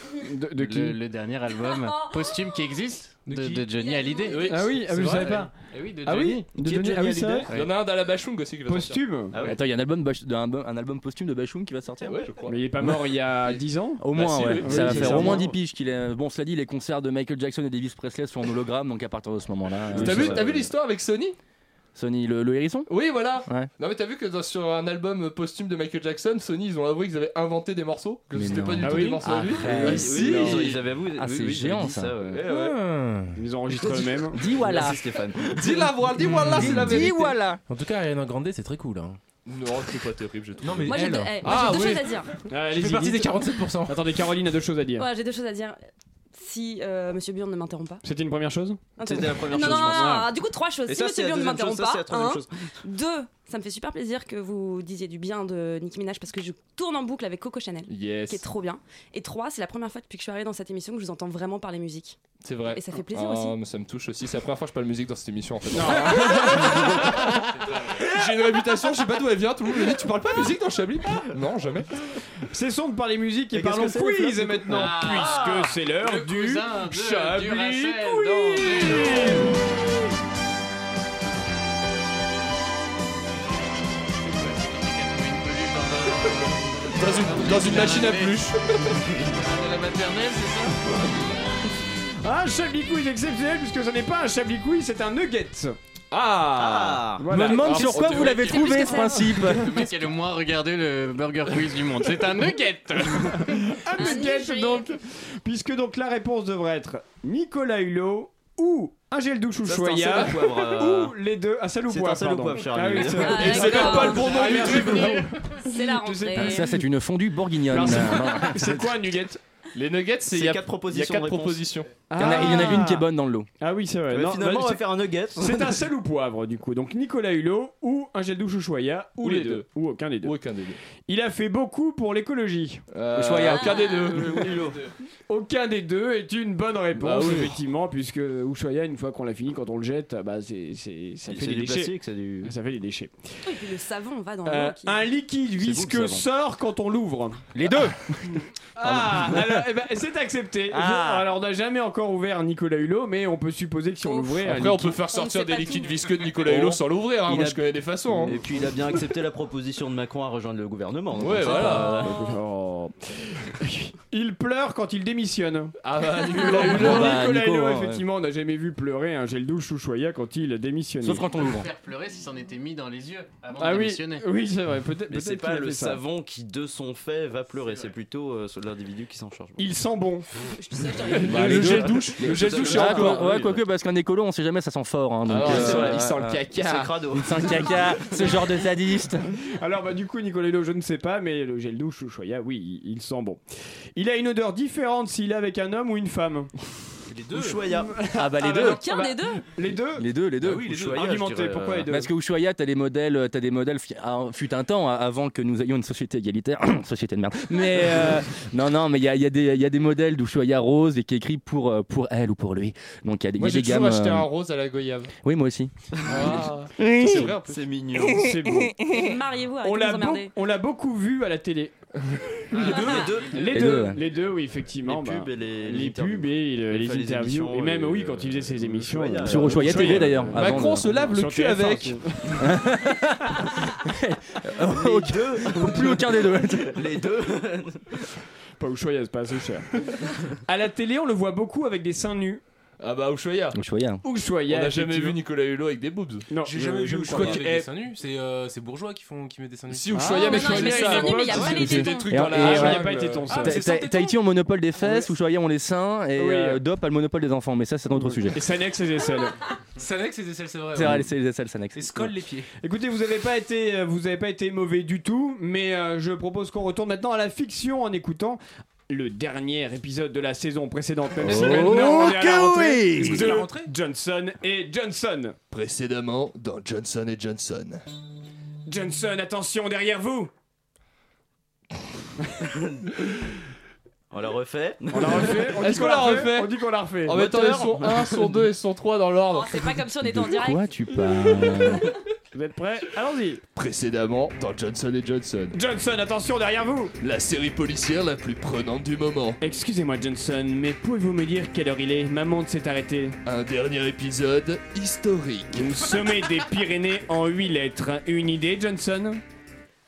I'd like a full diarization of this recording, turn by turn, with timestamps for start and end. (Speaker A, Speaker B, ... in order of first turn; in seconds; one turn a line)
Speaker A: 0.3-1.0
Speaker B: 0.6-6.5
Speaker C: 3.3-3.7
Speaker D: 3.8-4.4
Speaker C: 4.3-5.5
Speaker A: 4.5-5.5
Speaker A: 6.0-7.5
Speaker E: 6.6-7.5
Speaker F: 7.5-9.2
Speaker A: 8.7-9.3
Speaker G: 9.3-12.2
Speaker F: 12.0-12.6
Speaker A: 12.5-15.4
Speaker G: 14.0-20.5
Speaker F: 14.2-15.1
Speaker E: 14.4-15.6
Speaker F: 19.9-21.4
Speaker E: 19.9-20.7
Speaker G: 21.9-22.9
Speaker F: 22.9-30.8
Speaker G: 28.3-32.1
Speaker C: 28.4-29.2
Speaker A: 28.8-30.7
Speaker E: 29.6-32.5
Speaker C: 32.3-33.4
Speaker F: 32.5-32.7
Speaker A: 33.4-34.4
Speaker G: 34.3-35.0
Speaker E: 34.4-35.9
Speaker F: 35.5-37.4
Speaker C: 36.2-39.2
Speaker G: 36.6-37.6
Speaker F: 39.5-42.0
Speaker C: 40.6-42.0
Speaker D: 40.9-42.3
Speaker A: 42.5-45.1
Speaker C: 42.6-44.3
Speaker D: 45.0-45.8
Speaker D: 46.3-48.0
Speaker A: 48.0-48.9
Speaker D: 49.0-62.2
Speaker E: 49.0-50.3
Speaker A: 49.5-50.3
Speaker E: 50.9-52.6
Speaker F: 57.9-58.4
Speaker F: 62.4-72.0
Speaker D: 62.7-63.6
Speaker A: 65.7-66.5
Speaker A: 72.5-79.6
Speaker E: 73.5-75.2
Speaker B: 74.7-79.6
Speaker B: 84.2-88.4
Speaker F: 86.9-89.1
Speaker B: 89.0-91.3
Speaker A: 92.2-95.8
Speaker F: 96.1-97.0
Speaker E: 96.5-97.3
Speaker A: 97.2-99.7
Speaker G: 97.3-99.7
Speaker B: 97.8-103.7
Speaker A: 103.2-116.8
Speaker D: 104.0-104.9
Speaker E: 109.7-111.2
Speaker E: 111.9-113.7
Speaker D: 113.2-114.4
Speaker F: 113.3-115.1
Speaker C: 113.9-115.5
Speaker B: 114.1-115.2
Speaker D: 115.6-116.7
Speaker G: 116.3-119.0
Speaker A: 117.7-119.4
Speaker F: 119.8-122.6
Speaker E: 120.3-121.7
Speaker A: 122.1-123.0
Speaker G: 122.2-123.5
Speaker A: 123.6-130.4
Speaker E: 124.1-125.8
Speaker F: 129.2-129.7
Speaker F: 130.2-130.8
Speaker A: 131.1-132.8
Speaker F: 132.9-134.6
Speaker G: 133.2-133.6
Speaker E: 133.2-134.8
Speaker D: 133.6-134.1
Speaker A: 135.3-143.3
Speaker F: 137.0-137.5
Speaker E: 141.3-142.5
Speaker D: 143.4-145.0
Speaker A: 144.4-147.5
Speaker E: 145.6-146.2
Speaker G: 147.6-148.2
Speaker A: 148.8-155.0
Speaker G: 148.8-149.4
Speaker G: 150.7-151.2
Speaker F: 154.3-158.4
Speaker D: 155.1-156.3
Speaker A: 156.5-156.8
Speaker E: 157.3-157.6
Speaker A: 158.1-158.4
Speaker E: 158.2-162.3
Speaker F: 161.2-162.1
Speaker A: 161.4-165.7
Speaker F: 165.8-167.2
Speaker A: 166.3-171.4
Speaker G: 166.6-168.0
Speaker G: 171.0-171.7
Speaker B: 171.4-174.3
Speaker A: 173.6-176.0
Speaker E: 175.1-179.8
Speaker B: 177.6-177.9
Speaker A: 179.6-180.3
Speaker D: 180.6-181.4
Speaker F: 181.2-183.3
Speaker G: 181.3-189.2
Speaker E: 181.3-183.4
Speaker A: 181.7-182.0
Speaker C: 182.4-182.9
Speaker F: 185.3-186.9
Speaker E: 185.3-187.7
Speaker A: 189.6-193.4
Speaker A: 193.9-196.5
Speaker C: 197.1-197.6
Speaker E: 197.3-197.9
Speaker A: 197.9-200.1
Speaker G: 198.1-198.8
Speaker D: 198.4-199.5
Speaker G: 200.0-200.7
Speaker E: 200.4-201.9
Speaker C: 200.7-200.9
Speaker A: 200.7-202.1
Speaker G: 201.9-214.3
Speaker F: 213.4-215.1
Speaker G: 215.2-217.3
Speaker F: 216.1-218.2
Speaker A: 217.9-218.8
Speaker G: 218.0-219.1
Speaker D: 218.9-220.3
Speaker A: 219.6-221.8
Speaker F: 222.1-222.4
Speaker E: 222.5-223.9
Speaker A: 222.5-232.5
Speaker G: 223.5-224.0
Speaker E: 224.9-230.5
Speaker G: 229.2-230.9
Speaker F: 230.3-232.0
Speaker G: 232.4-236.9
Speaker E: 234.7-238.0
Speaker A: 238.6-239.8
Speaker A: 240.5-242.4
Speaker F: 242.8-243.6
Speaker G: 243.5-244.0
Speaker A: 244.0-245.2
Speaker F: 244.5-246.3
Speaker A: 246.3-247.4
Speaker C: 246.4-250.7
Speaker F: 247.1-247.7
Speaker F: 249.7-253.2
Speaker A: 249.9-253.6
Speaker D: 250.1-252.1
Speaker C: 251.5-251.8
Speaker G: 252.1-258.4
Speaker C: 253.1-254.2
Speaker A: 256.2-256.6
Speaker A: 257.9-259.4
Speaker C: 259.8-261.1
Speaker G: 260.7-262.1
Speaker C: 261.7-262.5
Speaker A: 262.6-275.4
Speaker G: 271.2-273.3
Speaker F: 271.3-271.7
Speaker C: 271.3-272.1
Speaker C: 272.9-273.7
Speaker F: 275.5-277.8
Speaker A: 278.7-280.3
Speaker E: 282.6-282.8
Speaker E: 284.1-285.5
Speaker A: 284.9-287.3
Speaker F: 285.6-286.5
Speaker F: 287.1-289.7
Speaker E: 287.1-288.5
Speaker D: 289.3-290.7
Speaker G: 290.0-291.9
Speaker A: 292.3-293.4
Speaker F: 293.5-295.6
Speaker A: 295.5-296.9
Speaker F: 297.0-299.4
Speaker A: 299.4-303.2
Speaker F: 303.2-305.9
Speaker A: 305.5-309.2